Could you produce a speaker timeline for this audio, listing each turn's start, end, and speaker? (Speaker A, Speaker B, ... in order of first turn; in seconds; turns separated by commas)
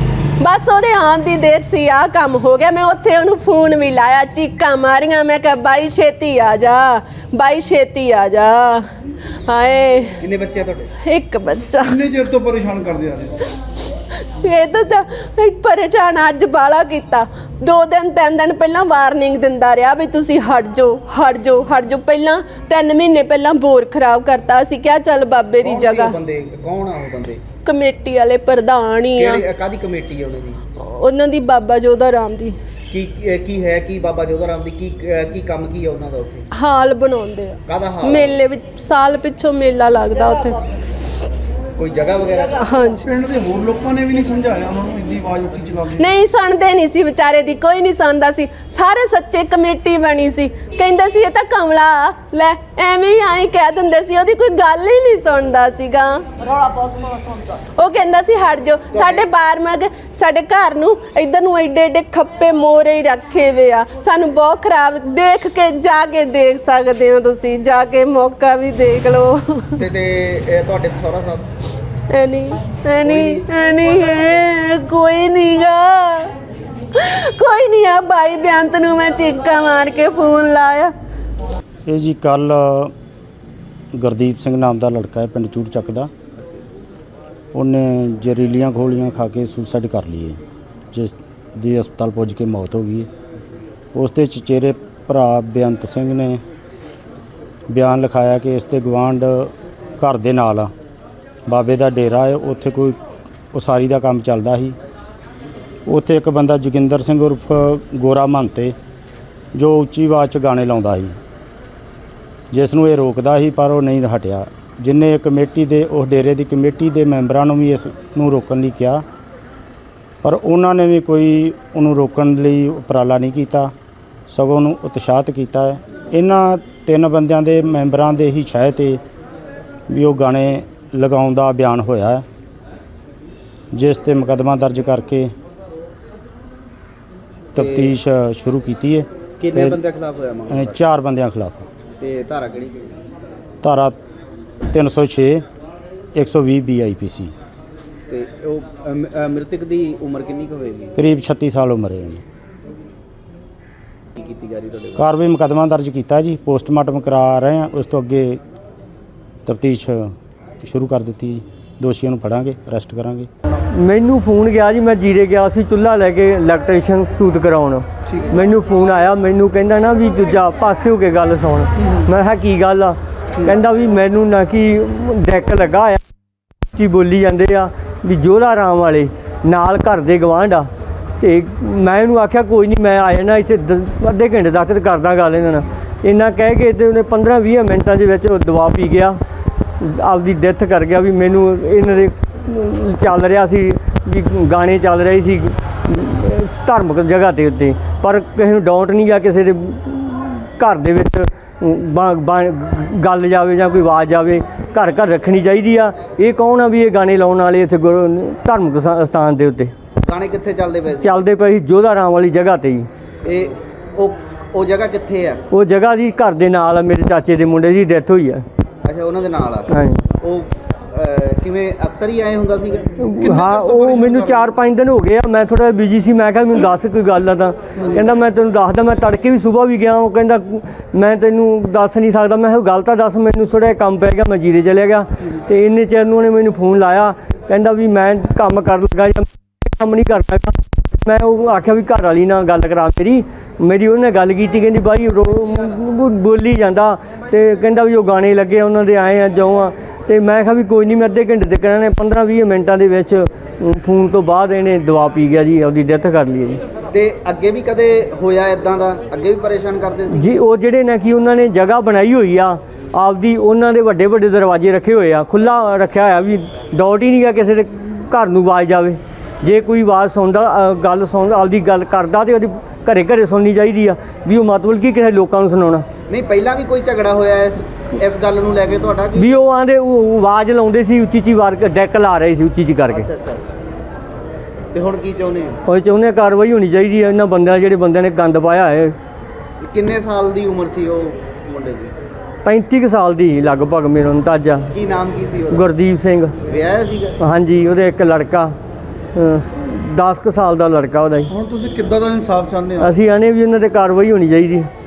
Speaker A: 0.4-8.9, Speaker A: 9.4-10.2, Speaker B: 10.2-10.9, Speaker A: 11.0-12.0, Speaker C: 11.8-13.4, Speaker A: 14.2-26.2, Speaker B: 25.6-27.4, Speaker A: 27.6-29.4, Speaker B: 29.1-30.6, Speaker A: 30.8-32.6, Speaker B: 32.9-36.5, Speaker A: 36.5-40.6, Speaker B: 37.7-38.4, Speaker B: 41.8-42.6, Speaker A: 42.5-43.1, Speaker C: 43.0-46.0, Speaker A: 46.0-56.9, Speaker A: 57.7-69.8, Speaker B: 69.8-71.5, Speaker A: 72.1-76.3, Speaker B: 73.1-73.4, Speaker A: 76.9-80.9, Speaker D: 81.8-82.9, Speaker D: 83.9-86.1, Speaker D: 87.5-90.4, Speaker D: 90.9-93.1, Speaker D: 93.9-96.4, Speaker D: 97.7-100.7, Speaker D: 101.5-103.0, Speaker D: 103.5-104.8, Speaker D: 105.8-108.7, Speaker D: 109.5-111.2, Speaker D: 112.5-119.0, Speaker D: 120.2-123.7, Speaker D: 124.3-129.0, Speaker D: 129.9-132.2, Speaker D: 133.7-135.3, Speaker D: 137.5-139.8, Speaker B: 137.5-137.9, Speaker B: 139.4-140.7, Speaker D: 140.5-141.7, Speaker B: 142.0-142.9, Speaker D: 143.6-143.9, Speaker D: 144.7-145.4, Speaker D: 146.1-147.3, Speaker B: 148.1-150.9, Speaker D: 150.9-152.2, Speaker B: 154.2-155.1, Speaker D: 154.9-158.4, Speaker D: 159.4-163.3, Speaker E: 163.7-176.0, Speaker E: 176.7-189.2, Speaker E: 189.8-209.7, Speaker B: 210.0-211.2, Speaker E: 211.0-212.9, Speaker B: 213.2-215.4, Speaker E: 215.5-218.4, Speaker B: 218.8-219.7, Speaker E: 219.7-220.0, Speaker B: 220.2-222.9, Speaker E: 223.0-256.6, Speaker C: 223.1-224.5, Speaker B: 256.9-260.3, Speaker E: 260.1-275.8, Speaker B: 276.1-279.3, Speaker E: 279.1-283.1, Speaker B: 282.9-283.4, Speaker B: 284.7-285.6, Speaker E: 285.6-288.9, Speaker B: 289.6-291.9, Speaker E: 292.4-294.7, Speaker B: 294.7-295.7, Speaker E: 295.5-296.4, Speaker B: 296.4-297.2, Speaker E: 297.2-298.5, Speaker E: 299.1-301.3, Speaker C: 301.3-303.0, Speaker E: 302.8-304.7